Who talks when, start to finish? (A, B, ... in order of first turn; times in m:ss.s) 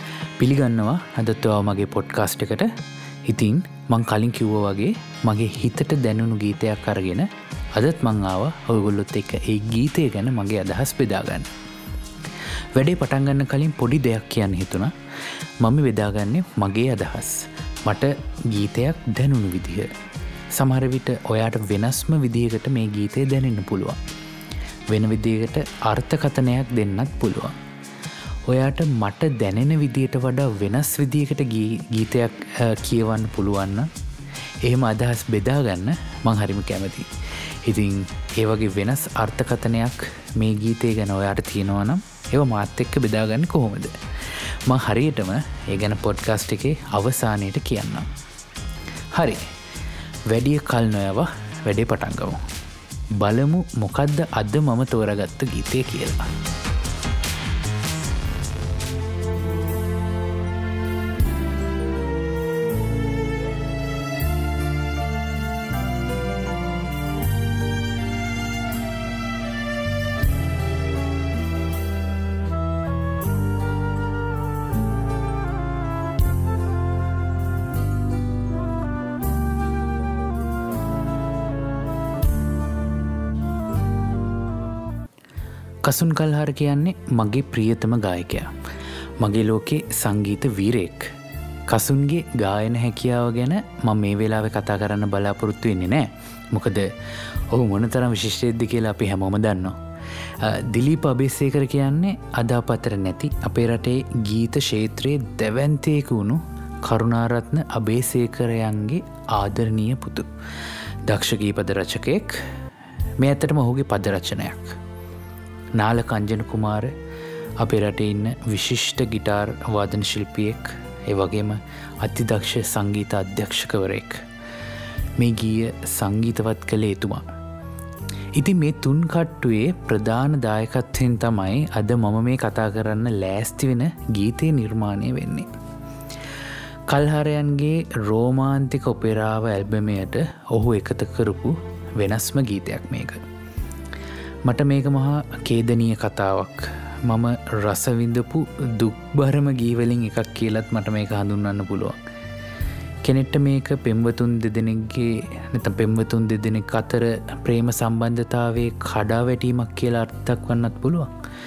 0:00.4-0:02.7 A
0:03.2-0:11.5 A
0:12.7-0:14.9 A
0:15.6-0:19.9 A
0:20.5-0:24.0 A
0:24.9-0:27.6 A
0:28.4-0:33.9 A
0:34.6-0:48.1 A
0:49.1-0:49.5 A
0:50.3-0:52.4 A
0:53.2-0:56.3 A
1:25.8-1:28.5 A
1:29.2-1:31.1 A
1:31.7-1:52.4 A
1:53.2-1:54.8 A
1:55.7-1:56.9 A
1:57.6-2:04.2 A
2:05.2-2:07.2 A
2:08.3-2:15.5 A
2:16.9-2:23.2 A
2:24.4-2:32.0 A
2:33.0-2:41.1 A